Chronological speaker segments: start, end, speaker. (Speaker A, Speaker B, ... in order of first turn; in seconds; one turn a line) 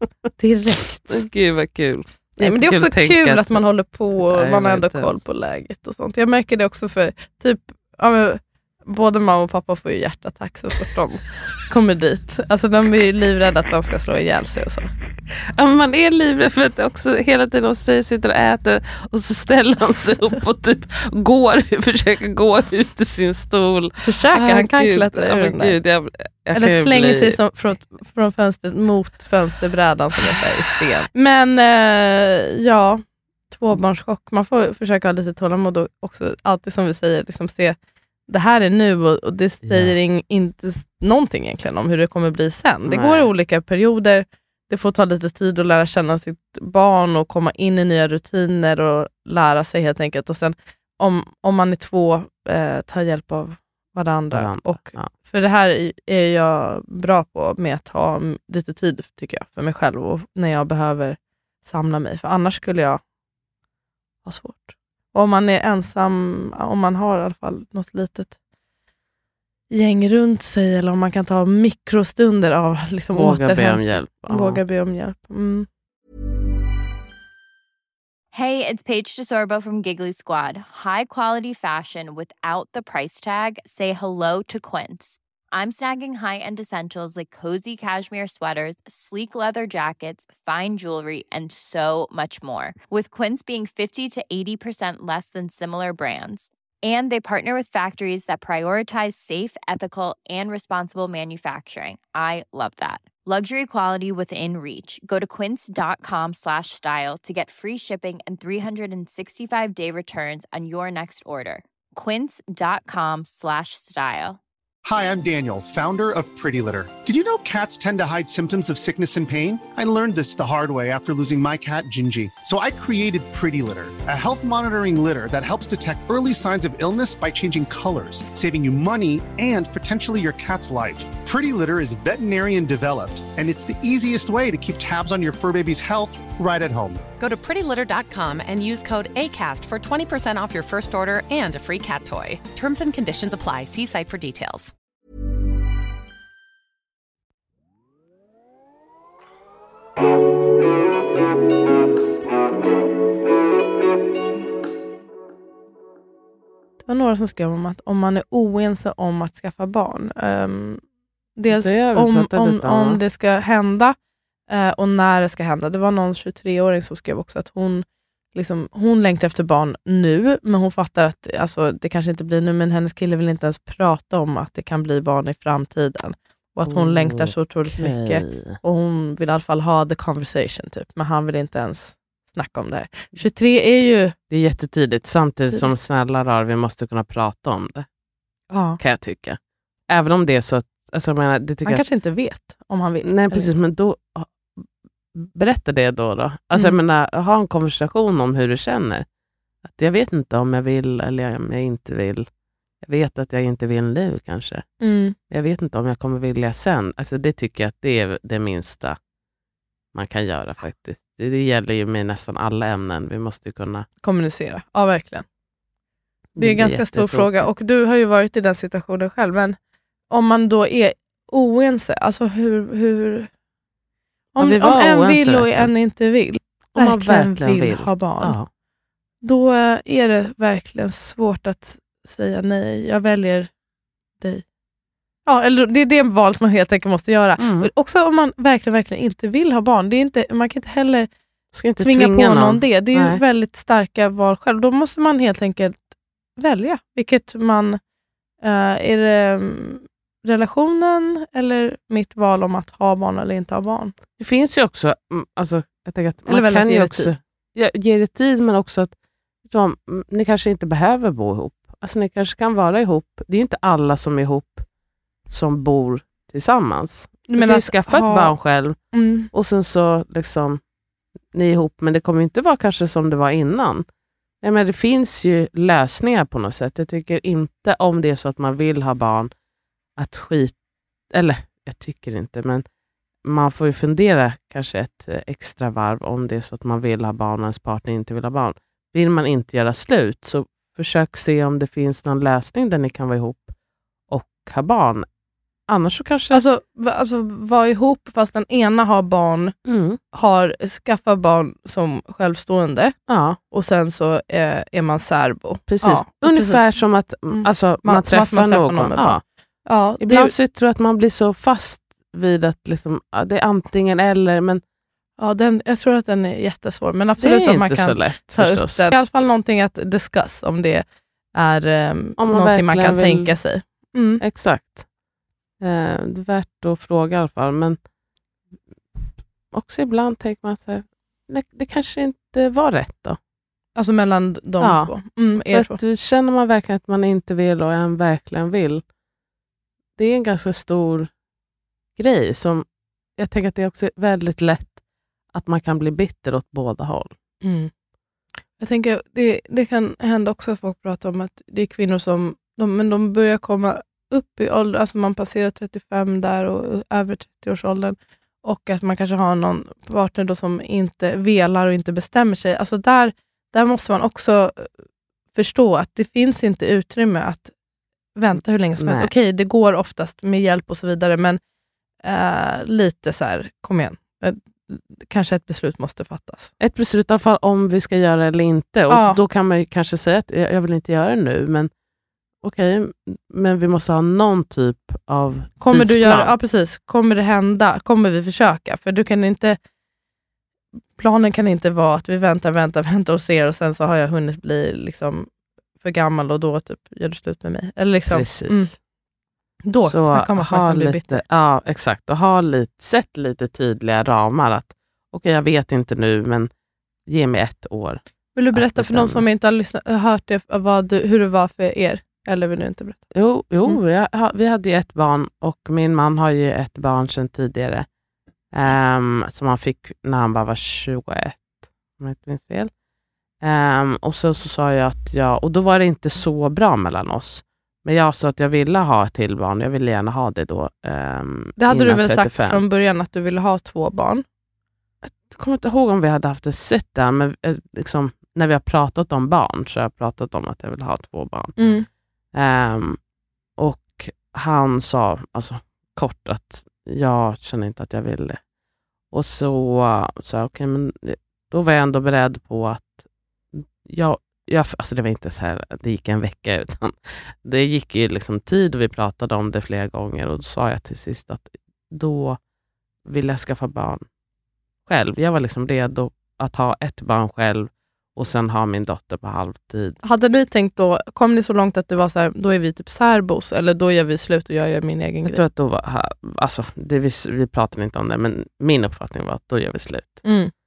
Speaker A: 0.4-1.2
Speaker B: 1.0-3.6
Speaker A: 2.4-14.9
Speaker B: 4.2-5.2
Speaker B: 15.5-27.4
Speaker A: 24.0-25.8
Speaker A: 26.5-37.8
Speaker A: 38.3-63.0
Speaker B: 39.6-40.0
Speaker B: 42.9-43.3
Speaker B: 54.3-55.1
Speaker A: 64.2-68.3
Speaker A: 69.7-75.7
Speaker B: 73.1-74.6
Speaker C: 78.3-114.4
Speaker D: 114.8-137.0
Speaker E: 137.2-144.7
Speaker A: 156.8-160.8
Speaker A: 161.3-163.9
Speaker B: 161.5-163.0
Speaker A: 164.5-184.1
Speaker B: 176.6-178.6
Speaker B: 184.3-187.9
Speaker A: 188.5-188.8
Speaker B: 188.8-191.8
Speaker A: 191.6-193.6
Speaker B: 193.0-199.1
Speaker B: 199.6-202.3
Speaker B: 202.8-204.7
Speaker A: 204.8-205.2
Speaker B: 205.3-209.0
Speaker B: 209.9-213.8
Speaker A: 214.0-215.2
Speaker B: 216.3-217.3
Speaker A: 216.4-219.6
Speaker A: 220.1-223.3
Speaker A: 224.3-228.4
Speaker B: 224.4-225.7
Speaker B: 226.7-228.5
Speaker A: 229.2-233.5
Speaker A: 235.2-241.1
Speaker B: 237.4-237.7
Speaker B: 241.5-243.2
Speaker A: 241.8-245.8
Speaker A: 246.4-247.8
Speaker A: 248.4-253.9
Speaker B: 254.2-258.9
Speaker A: 256.3-257.1
Speaker B: 259.5-264.6
Speaker B: 265.3-268.8
Speaker A: 267.3-268.4
Speaker A: 268.9-269.3
Speaker B: 269.3-270.6
Speaker B: 271.3-273.8
Speaker B: 274.4-279.3
Speaker B: 279.9-280.6
Speaker B: 281.1-282.6
Speaker B: 283.2-293.5
Speaker B: 294.1-295.1
Speaker B: 295.7-296.4
Speaker A: 296.3-299.5
Speaker B: 299.6-300.0
Speaker A: 300.1-302.9
Speaker B: 303.1-303.4
Speaker A: 303.5-306.8
Speaker B: 305.7-309.2
Speaker A: 307.3-310.3
Speaker B: 310.0-314.6
Speaker A: 315.2-324.2
Speaker B: 317.2-318.9
Speaker B: 322.2-323.4
Speaker B: 324.2-324.9
Speaker B: 325.6-327.8
Speaker B: 329.5-333.2
Speaker A: 333.8-335.8
Speaker B: 334.6-338.8
Speaker B: 340.0-341.1
Speaker B: 341.9-344.8
Speaker B: 345.3-347.1
Speaker A: 347.4-347.7
Speaker A: 348.6-364.7
Speaker A: 365.3-367.5
Speaker A: 368.1-371.4
Speaker B: 368.8-369.1
Speaker A: 372.0-376.5
Speaker B: 376.6-381.7
Speaker A: 378.9-379.2
Speaker B: 382.4-386.3
Speaker A: 385.6-389.6
Speaker A: 390.9-398.7
Speaker B: 398.1-398.8
Speaker A: 399.6-401.2
Speaker B: 399.8-406.5
Speaker B: 407.1-408.0
Speaker A: 408.4-413.1
Speaker B: 408.5-409.2
Speaker B: 413.1-417.9
Speaker B: 418.5-422.7
Speaker B: 423.4-432.6
Speaker A: 431.6-434.2
Speaker B: 435.0-441.7
Speaker A: 441.6-441.9
Speaker B: 442.3-443.0
Speaker B: 443.6-448.4
Speaker B: 449.1-462.4
Speaker B: 463.1-464.0
Speaker B: 464.9-470.0
Speaker A: 470.0-475.4
Speaker B: 475.2-480.2
Speaker A: 480.2-480.5